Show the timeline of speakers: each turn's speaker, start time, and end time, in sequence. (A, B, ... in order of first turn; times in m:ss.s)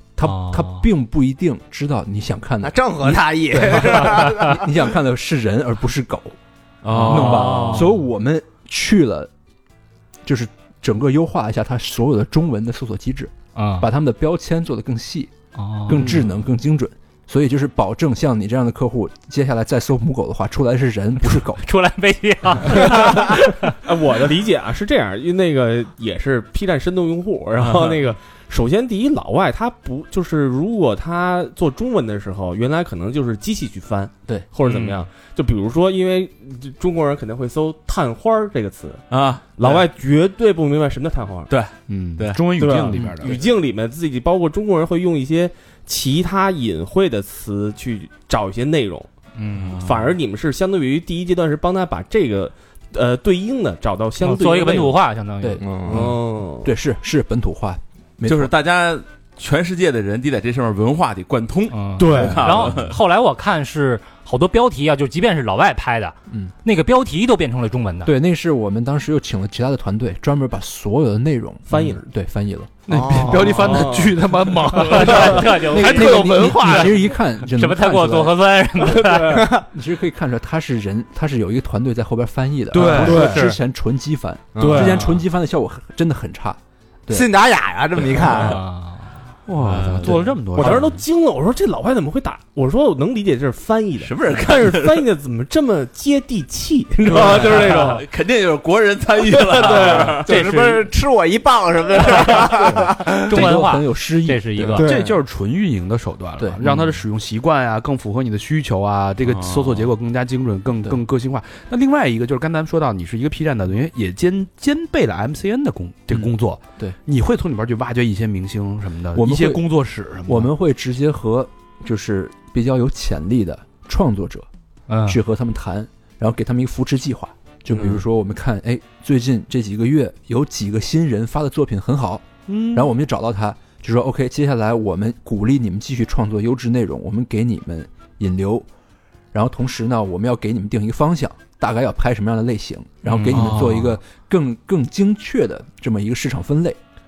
0:00.2-0:06.3 A
0:00.2-0:00.8 B
0:02.6-0:04.7 C
0:06.8-0:07.8 D
0:06.9-0:09.3 A
0:07.0-0:07.9 B
0:10.2-0:15.3 A
0:13.6-0:13.9 B
0:15.6-0:16.2 B
0:15.9-0:21.6 A
0:21.5-0:23.7 B
0:23.8-0:39.0 E
0:34.6-0:35.0 D
0:39.1-0:39.8 D
0:39.6-0:41.5 E
0:41.5-0:43.3 D
0:41.9-0:43.4 F
0:42.6-0:49.1 E
0:49.4-0:50.1 D
0:49.7-0:55.0 E
0:54.2-0:55.6 B
0:55.4-0:56.1 A
0:55.6-0:56.1 C
0:55.8-0:56.7 E
0:56.6-0:58.5 A
0:58.2-1:03.0 D
1:01.7-1:08.1 B
1:02.0-1:02.5 E
1:06.3-1:06.5 A
1:08.0-1:12.7 A
1:11.7-1:12.0 E
1:12.9-1:17.1 F
1:12.9-1:13.8 C
1:13.5-1:14.2 E
1:14.7-1:19.5 B
1:15.1-1:18.4 A
1:15.1-1:15.4 E
1:19.3-1:19.6 C
1:19.7-1:27.3 A
1:22.7-1:23.5 F
1:22.9-1:23.6 B
1:24.6-1:25.0 C
1:24.6-1:25.0 F
1:24.8-1:25.1 B
1:27.1-1:28.6 C
1:28.4-1:29.0 B
1:29.5-1:30.9 F
1:29.7-1:30.0 D
1:29.8-1:30.1 A
1:30.5-1:38.0 E
1:34.0-1:35.0 D
1:37.1-1:40.4 D
1:39.3-1:43.4 C
1:39.6-1:40.2 E
1:40.3-1:40.8 B
1:43.1-1:44.9 B
1:43.2-1:44.8 A
1:44.7-1:45.2 C
1:44.8-2:00.5 F
1:46.4-1:46.6 A
1:49.2-1:49.9 D
1:56.1-1:57.0 A
1:59.1-1:59.6 A
2:00.2-2:04.5 A
2:04.9-2:05.2 B
2:05.0-2:18.7 A
2:07.7-2:08.0 F
2:12.5-2:12.9 F
2:19.3-2:26.8 A
2:23.0-2:23.7 B